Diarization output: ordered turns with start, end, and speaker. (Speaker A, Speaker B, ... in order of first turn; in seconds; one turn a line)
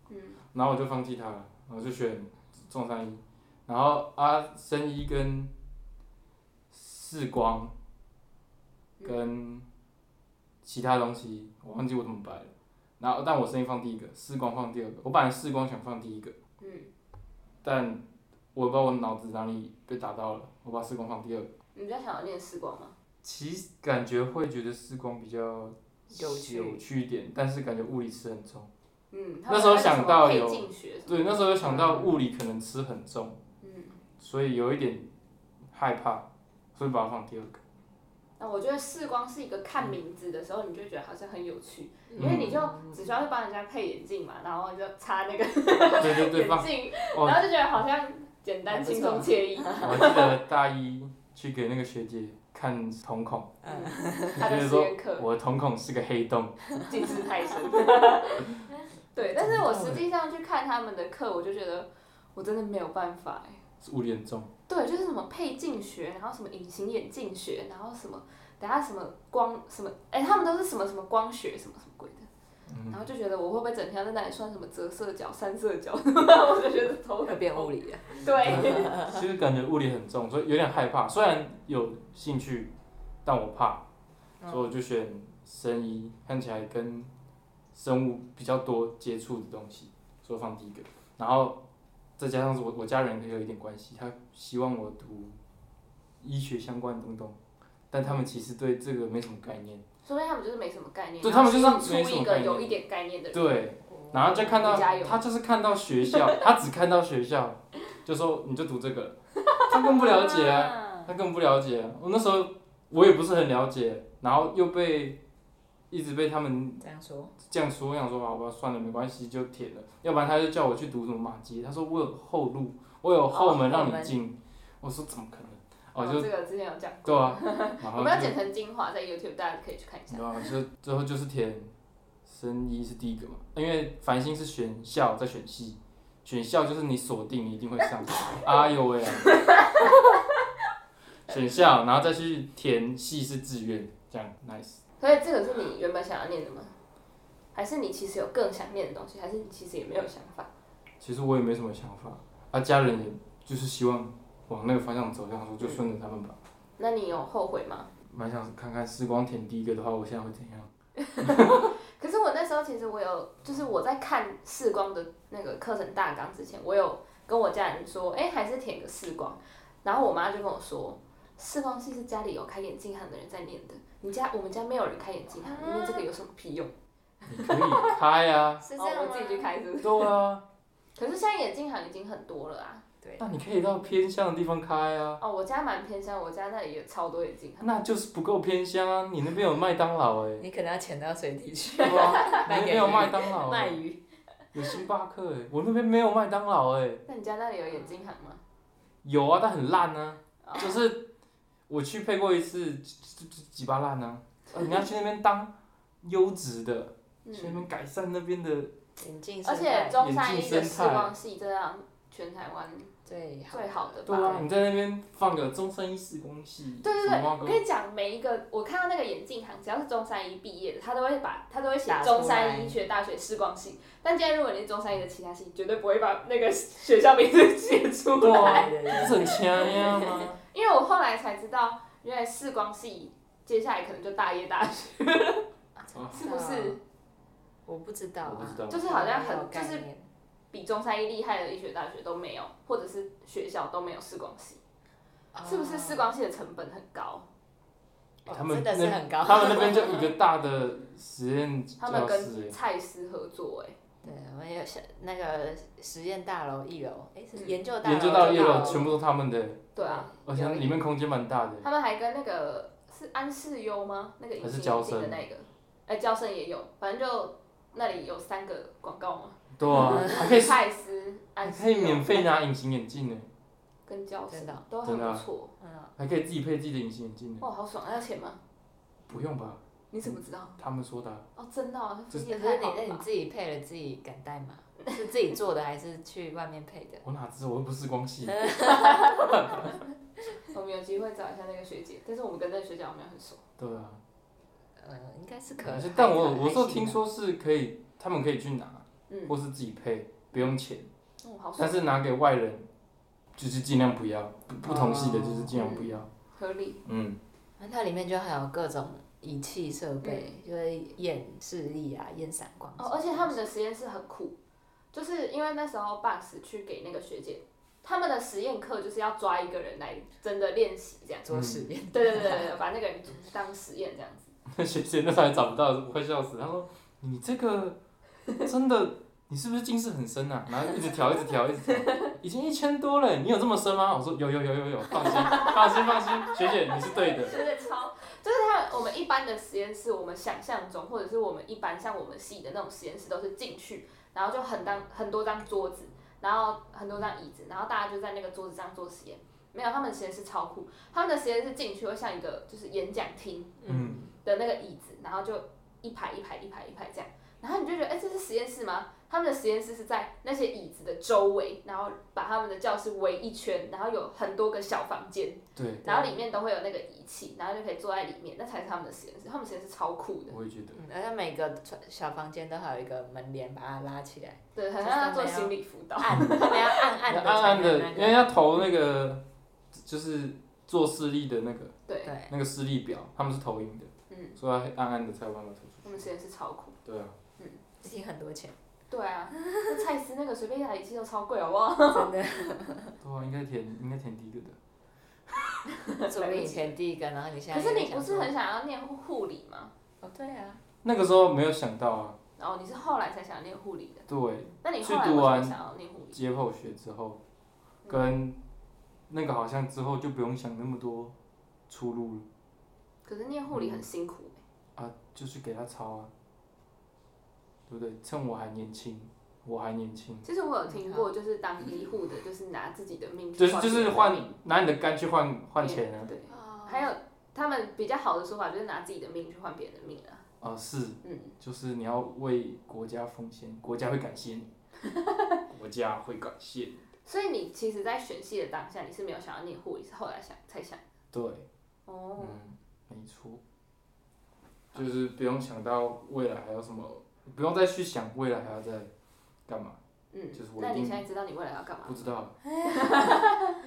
Speaker A: 0.1-0.4
Speaker B: 0.5-5.5
Speaker B: 6.7-7.7
Speaker B: 9.0-9.7
Speaker B: 10.6-16.3
Speaker A: 16.6-16.9
Speaker B: 17.6-18.0
Speaker B: 18.5-21.5
Speaker A: 21.7-22.9
Speaker B: 23.2-28.7
Speaker C: 26.1-26.8
Speaker A: 29.1-31.3
Speaker B: 29.5-33.4
Speaker C: 31.6-32.1
Speaker A: 33.6-34.0
Speaker B: 34.2-35.1
Speaker B: 35.7-37.6
Speaker A: 38.4-50.4
Speaker C: 42.1-43.1
Speaker B: 42.2-42.6
Speaker B: 46.0-47.4
Speaker C: 48.7-50.1
Speaker B: 49.8-53.6
Speaker C: 53.6-54.5
Speaker A: 53.6-55.3
Speaker B: 54.3-56.6
Speaker A: 56.9-63.6
Speaker B: 59.4-60.0
Speaker C: 59.4-60.0
Speaker B: 63.8-64.5
Speaker A: 64.7-72.3
Speaker B: 72.7-73.0
Speaker A: 72.9-79.0
Speaker C: 77.2-79.2
Speaker B: 78.2-82.7
Speaker B: 83.2-83.8
Speaker C: 84.4-84.7
Speaker B: 84.5-87.1
Speaker B: 87.7-91.6
Speaker B: 92.2-95.4
Speaker B: 96.2-97.4
Speaker B: 97.9-99.8
Speaker A: 100.0-103.5
Speaker B: 101.2-102.8
Speaker B: 103.3-115.2
Speaker C: 103.9-104.9
Speaker A: 104.4-105.2
Speaker C: 109.8-111.1
Speaker B: 115.9-116.8
Speaker C: 116.8-117.3
Speaker B: 117.4-126.3
Speaker C: 123.3-124.1
Speaker A: 126.0-130.5
Speaker B: 127.0-128.3
Speaker B: 130.1-131.7
Speaker B: 132.2-139.3
Speaker A: 139.3-139.9
Speaker B: 141.3-144.8
Speaker A: 145.0-146.7
Speaker A: 147.5-150.5
Speaker B: 151.0-156.4
Speaker A: 156.8-157.9
Speaker B: 158.1-161.7
Speaker A: 161.1-176.7
Speaker C: 175.4-176.1
Speaker B: 177.3-178.7
Speaker A: 177.3-177.9
Speaker C: 178.6-179.5
Speaker A: 178.8-180.1
Speaker B: 179.8-180.4
Speaker A: 180.9-182.8
Speaker B: 183.2-185.2
Speaker A: 185.2-187.7
Speaker B: 187.6-190.4
Speaker C: 190.4-194.0
Speaker B: 191.8-193.8
Speaker B: 194.5-197.0
Speaker A: 197.1-198.4
Speaker B: 199.0-201.1
Speaker A: 200.4-200.8
Speaker B: 201.7-208.7
Speaker A: 207.2-207.7
Speaker C: 209.0-210.0
Speaker A: 209.4-212.9
Speaker B: 210.0-211.1
Speaker C: 213.1-214.5
Speaker A: 213.5-214.5
Speaker B: 214.1-217.6
Speaker A: 216.8-229.7
Speaker C: 221.8-222.8
Speaker B: 228.2-230.4
Speaker C: 228.2-230.3
Speaker A: 230.5-235.4
Speaker C: 235.8-236.8
Speaker B: 235.9-236.2
Speaker A: 236.1-236.8
Speaker C: 237.7-240.1
Speaker B: 238.2-238.9
Speaker A: 238.7-239.8
Speaker A: 240.5-244.6
Speaker C: 245.3-246.1
Speaker A: 245.4-247.3
Speaker C: 248.2-250.1
Speaker B: 248.2-252.6
Speaker A: 251.8-253.8
Speaker C: 254.0-258.9
Speaker A: 257.3-258.9
Speaker B: 257.8-259.7
Speaker A: 259.8-260.1
Speaker C: 259.8-260.8
Speaker B: 260.2-261.7
Speaker A: 261.6-272.3
Speaker B: 264.4-265.2
Speaker B: 269.6-270.6
Speaker C: 269.8-270.3
Speaker B: 271.4-273.3
Speaker A: 273.9-275.5
Speaker C: 274.3-274.6
Speaker B: 274.8-275.2
Speaker C: 275.6-275.9
Speaker B: 276.0-277.4
Speaker A: 277.4-278.4
Speaker B: 279.1-281.2
Speaker A: 279.9-280.6
Speaker A: 281.4-283.0
Speaker C: 282.2-287.0
Speaker B: 287.0-289.8
Speaker C: 288.3-289.5
Speaker A: 288.8-289.1
Speaker A: 290.4-293.4
Speaker B: 293.6-294.0
Speaker C: 294.8-297.0
Speaker B: 295.6-300.9
Speaker A: 299.1-299.3
Speaker A: 301.2-301.8
Speaker B: 301.6-302.7
Speaker B: 303.4-306.1
Speaker C: 304.6-305.6
Speaker A: 305.6-306.8
Speaker B: 306.8-307.2
Speaker C: 307.6-313.4
Speaker A: 310.0-310.3
Speaker A: 312.8-314.4
Speaker A: 314.9-321.3
Speaker C: 321.2-322.6
Speaker B: 321.3-321.7
Speaker A: 321.9-324.3
Speaker B: 324.5-327.8
Speaker B: 328.4-337.4
Speaker A: 335.2-335.6
Speaker A: 337.1-353.6
Speaker C: 353.6-354.1
Speaker B: 353.7-354.0
Speaker A: 354.2-370.4
Speaker B: 365.6-366.1
Speaker B: 370.3-370.8
Speaker C: 370.7-378.4
Speaker A: 374.6-376.8
Speaker B: 377.1-381.7
Speaker A: 381.9-382.1
Speaker C: 382.0-382.3
Speaker B: 382.3-386.1
Speaker A: 384.1-384.4
Speaker A: 385.8-386.8
Speaker B: 386.8-387.1
Speaker C: 387.8-388.6
Speaker A: 388.9-392.1
Speaker C: 389.4-389.8
Speaker C: 391.9-393.0
Speaker B: 393.0-394.6
Speaker A: 395.8-396.7
Speaker C: 396.1-398.3
Speaker A: 397.5-399.7
Speaker C: 400.0-400.6
Speaker B: 400.8-402.2
Speaker A: 402.4-404.1
Speaker B: 404.1-405.6
Speaker A: 404.6-406.2
Speaker B: 406.1-407.2
Speaker A: 407.8-408.1
Speaker B: 407.9-408.4
Speaker B: 409.1-411.1
Speaker B: 411.7-412.2
Speaker A: 413.0-414.4
Speaker B: 413.5-413.8
Speaker B: 414.8-416.1
Speaker B: 417.7-420.2
Speaker A: 420.2-424.3
Speaker C: 420.7-421.1
Speaker B: 423.4-426.1
Speaker A: 425.6-430.2
Speaker C: 426.3-426.9
Speaker B: 430.4-434.5
Speaker A: 431.0-431.4
Speaker A: 434.9-435.4
Speaker B: 435.5-436.8
Speaker A: 437.1-440.8
Speaker B: 441.1-441.4
Speaker A: 441.9-442.4
Speaker B: 442.2-443.4
Speaker B: 444.7-448.9
Speaker B: 449.5-449.8
Speaker A: 450.1-452.0
Speaker B: 450.3-451.0
Speaker B: 451.8-452.4
Speaker C: 452.6-453.3
Speaker A: 452.6-453.6